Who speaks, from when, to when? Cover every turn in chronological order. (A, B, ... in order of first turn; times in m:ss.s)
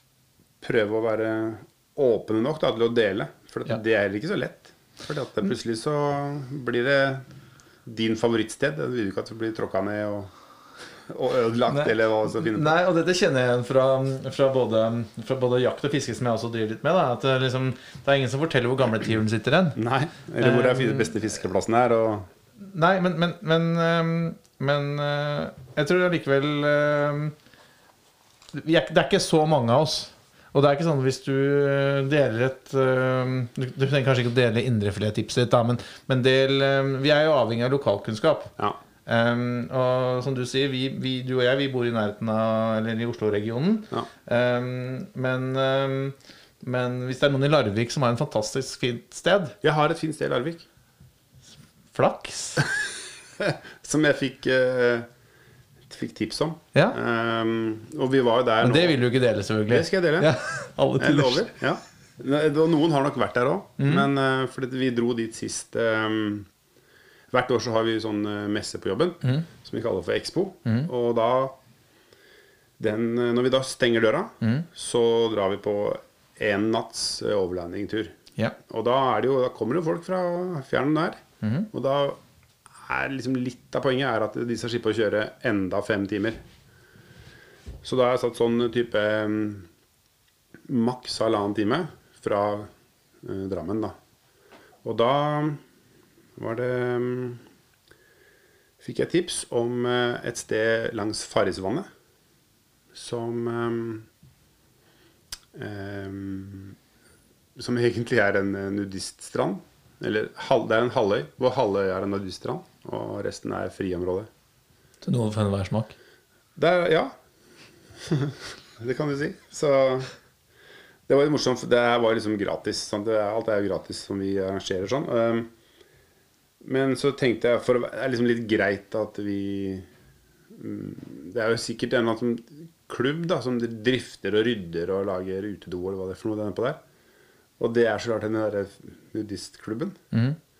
0:00.6-0:07.2 A
0:07.8-0:10.3 A
0:11.1-0:12.7 A
0:11.7-0:19.8 B
0:19.8-0:22.3 A
0:20.4-0:21.1 B
0:22.6-0:27.3 B
0:28.5-0:38.5 B
0:39.0-0:49.6 B
0:49.6-0:50.6 A
0:51.9-0:52.6 B
0:53.4-0:55.1 A
0:55.9-0:59.0 A
0:58.6-1:01.5 B
0:59.7-1:00.3 A
1:01.0-1:06.5 A
1:03.8-1:04.1 B
1:07.3-1:11.6 A
1:12.8-1:18.2 A
1:14.4-1:14.7 B
1:18.7-1:22.2 A
1:21.4-1:21.7 B
1:22.8-1:26.4 A
1:27.8-1:29.7 A
1:30.7-1:32.7 A
1:33.2-1:33.9 A
1:34.8-1:35.6 A
1:36.4-1:37.4 A
1:38.8-1:41.9 A
1:42.9-1:44.1 A
1:45.5-1:46.8 A
1:47.6-1:54.3 A
1:55.0-1:55.9 B
1:56.6-1:57.1 A
1:58.0-2:00.1 A
2:01.1-2:05.5 A
2:06.6-2:09.9 A
2:10.5-2:16.8 A
2:17.6-2:20.0 A
2:20.1-2:20.4 B